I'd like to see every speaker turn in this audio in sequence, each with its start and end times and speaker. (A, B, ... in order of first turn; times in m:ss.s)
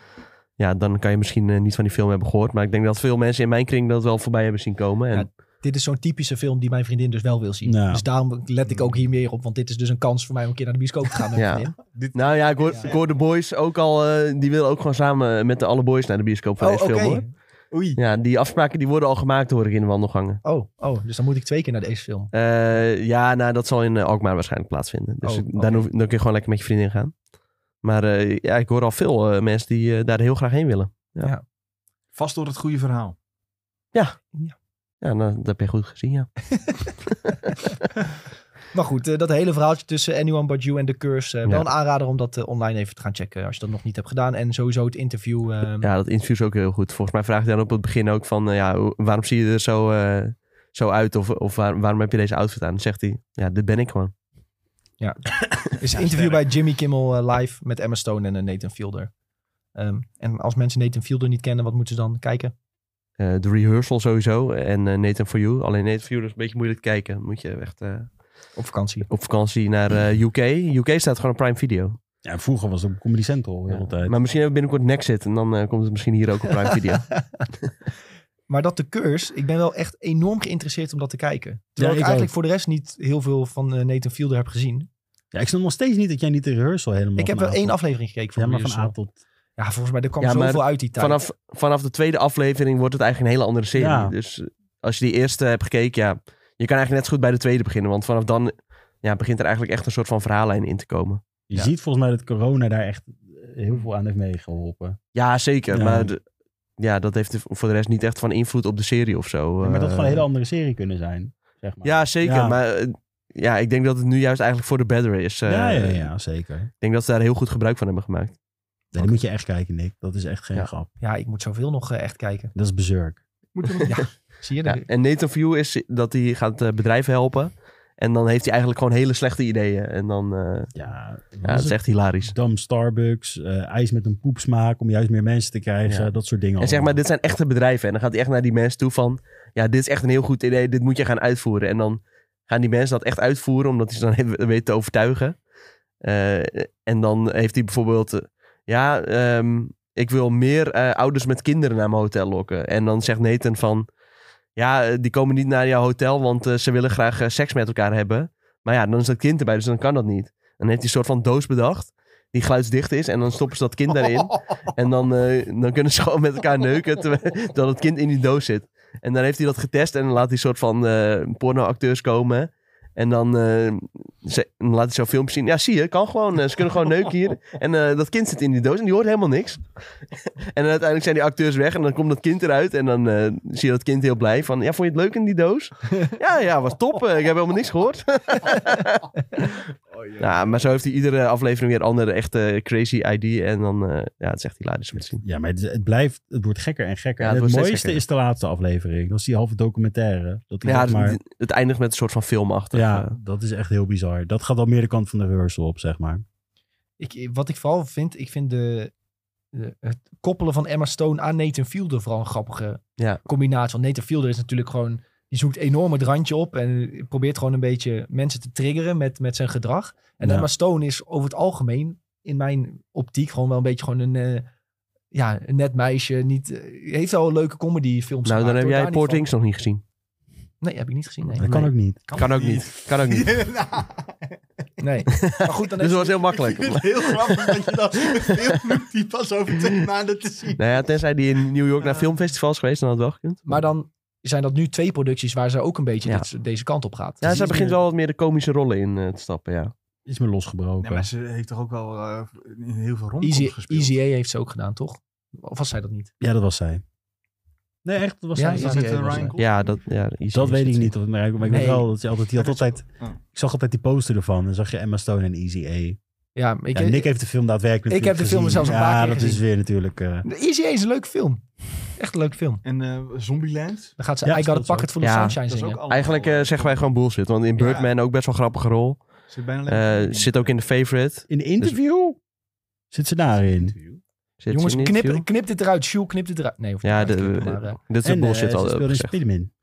0:00.6-0:05.3 A
0:05.1-0:11.8 B
0:07.6-0:08.0 C
0:08.6-0:08.9 D
0:11.4-0:17.2 A
0:11.9-0:13.0 D
0:16.6-0:17.2 B
0:17.7-0:18.0 D
0:18.0-0:20.4 A
0:20.4-0:22.3 B
0:22.3-0:27.2 A
0:25.2-0:25.8 B
0:27.8-0:31.3 A
0:32.1-0:33.2 D
0:35.0-0:36.3 A
0:38.7-0:45.9 B
0:45.8-0:54.1 A
0:55.0-0:59.1 B
0:55.9-0:56.4 D
0:59.7-1:02.5 B
1:03.2-1:08.1 A
1:08.6-1:09.1 B
1:09.1-1:12.0 A
1:12.2-1:14.1 C
1:13.7-1:17.1 A
1:18.5-1:24.9 B
1:21.8-1:22.3 C
1:25.3-1:27.8 C
1:27.2-1:28.9 B
1:28.3-1:29.2 C
1:29.6-1:31.2 B
1:30.2-1:41.2 A
1:33.7-1:34.1 C
1:41.5-1:45.0 C
1:45.1-1:46.2 A
1:45.7-1:46.1 C
1:46.8-1:50.2 A
1:49.6-1:52.6 C
1:51.8-1:56.1 A
1:55.4-1:56.7 C
1:56.8-1:58.4 A
1:58.9-2:00.9 C
2:01.0-2:02.5 B
2:02.5-2:03.2 C
2:03.5-2:04.0 D
2:03.8-2:04.8 B
2:04.6-2:10.7 A
2:10.7-2:17.0 C
2:11.4-2:12.3 A
2:16.6-2:25.4 A
2:26.0-2:33.9 A
2:34.6-2:59.6 A
3:00.4-3:09.6 A
3:09.9-3:10.7 D
3:10.2-3:15.2 A
3:15.2-3:21.2 C
3:17.2-3:18.0 A
3:20.6-3:23.2 A
3:22.7-3:26.2 C
3:27.0-3:28.9 B
3:29.5-3:44.4 B
3:40.2-3:40.5 C
3:45.1-3:49.3 B
3:48.2-3:49.8 A
3:50.6-3:51.5 B
3:51.4-3:52.0 C
3:51.4-3:53.3 A
3:52.1-3:54.4 D
3:54.8-3:56.3 B
3:55.2-3:57.6 A
3:56.3-4:00.7 D
4:00.6-4:03.5 A
4:01.8-4:02.1 D
4:03.4-4:07.8 B
4:07.2-4:09.7 A
4:10.0-4:11.1 C
4:10.8-4:14.0 D
4:13.2-4:16.1 B
4:16.2-4:16.8 C
4:17.8-4:19.3 C
4:18.3-4:19.3 B
4:18.5-4:19.6 D
4:19.4-4:20.9 A
4:20.3-4:26.0 C
4:21.4-4:21.9 B
4:22.4-4:23.2 D
4:26.4-4:27.1 B
4:26.7-4:30.2 C
4:27.9-4:29.4 B
4:30.2-4:31.4 B
4:32.0-4:32.6 B
4:32.6-4:33.9 D
4:34.0-4:35.8 B
4:34.2-4:34.9 C
4:35.0-4:39.0 A
4:35.5-4:36.9 D
4:37.6-4:37.9 D
4:39.3-4:40.5 D
4:39.7-4:41.8 A
4:41.3-4:42.2 C
4:42.9-4:43.7 C
4:43.4-4:44.0 D
4:44.4-4:45.2 A
4:44.5-4:47.8 B
4:46.8-4:49.1 A
4:48.0-4:49.5 C